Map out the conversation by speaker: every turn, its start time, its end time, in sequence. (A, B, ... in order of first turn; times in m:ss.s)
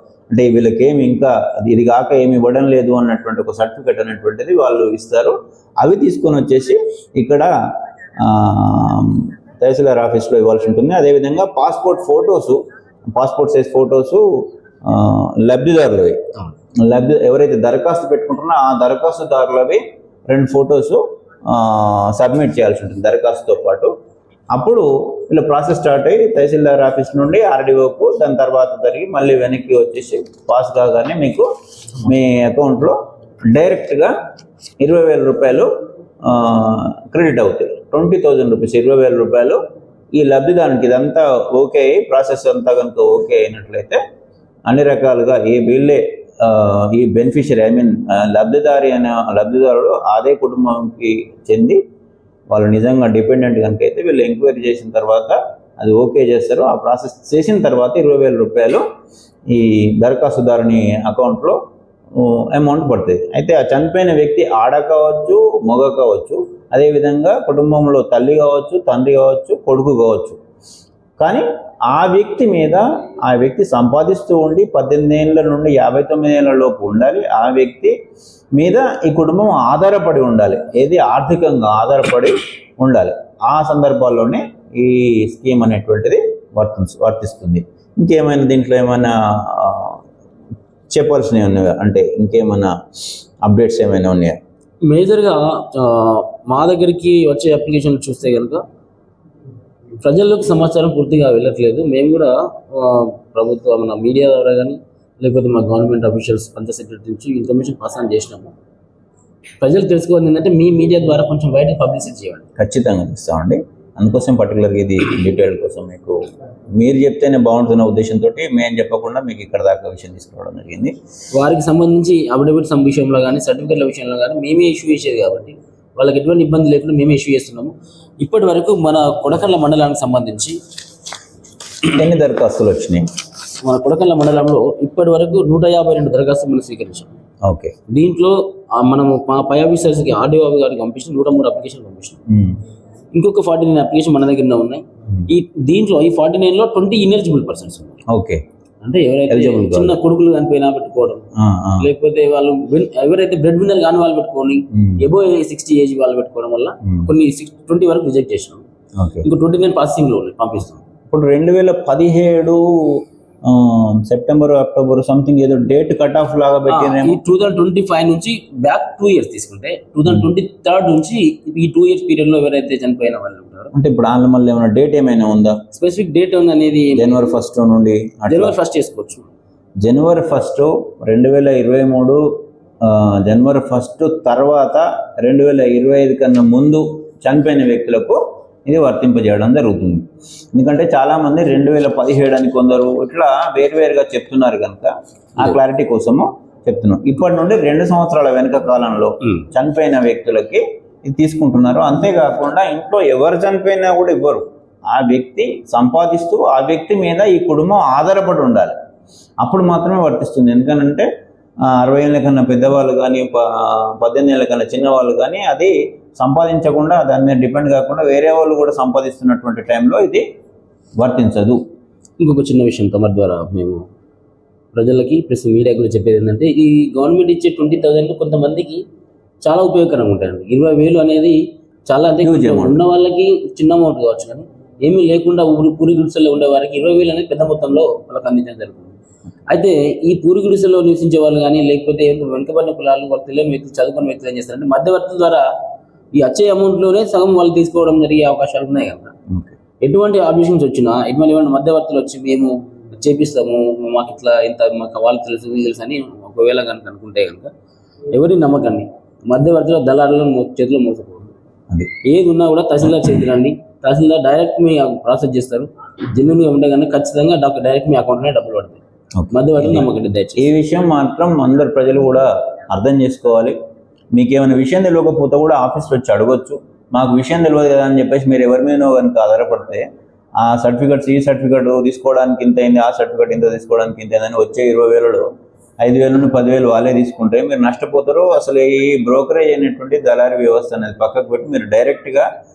0:00.3-0:07.5 A
0:08.2-0:12.6 A
0:13.1-0:14.2 A
0:14.8-0:16.2 A
0:16.8-0:23.9 A
0:24.5-0:31.5 A
0:32.0-0:33.0 A
0:33.5-0:34.1 A
0:34.8-0:35.7 A
0:36.2-0:39.6 A
0:40.1-0:44.0 A
0:44.7-0:51.8 A
0:52.5-0:58.8 A
0:59.5-1:01.6 A
1:02.1-1:10.4 A
1:11.2-1:17.9 A
1:18.5-1:30.0 A
1:30.9-1:32.7 A
1:33.4-1:34.4 A
1:34.9-1:38.6 B
1:40.0-1:48.5 B
1:49.6-1:52.5 B
1:52.6-1:56.2 A
1:56.8-2:00.9 A
2:01.3-2:10.6 B
2:11.8-2:13.0 A
2:13.6-2:17.1 B
2:17.4-2:17.7 A
2:17.9-2:22.2 B
2:22.3-2:22.6 A
2:23.1-2:28.0 B
2:28.1-2:28.4 A
2:28.8-2:31.3 B
2:29.3-2:30.0 A
2:31.4-2:31.9 A
2:31.8-2:38.6 B
2:34.7-2:35.0 A
2:39.0-2:39.2 A
2:39.2-2:40.8 B
2:41.1-2:47.2 A
2:46.7-2:53.7 B
2:53.7-2:55.6 A
2:55.7-2:57.1 B
2:56.9-2:58.6 A
2:58.3-2:59.3 B
2:59.8-3:02.2 A
3:02.8-3:28.7 A
3:29.4-3:31.1 A
3:31.7-3:40.2 A
3:41.0-3:41.6 A
3:42.2-3:43.8 B
3:44.7-3:48.8 B
3:49.4-3:59.0 B
3:52.2-3:52.8 A
3:59.5-4:05.4 B
4:06.1-4:09.1 B
4:09.3-4:09.6 A
4:09.8-4:17.5 B
4:18.1-4:21.3 B
4:22.0-4:28.8 B
4:29.2-4:33.6 A
4:29.3-4:30.5 B
4:34.1-4:39.8 A
4:40.4-4:45.2 A
4:45.8-4:52.3 A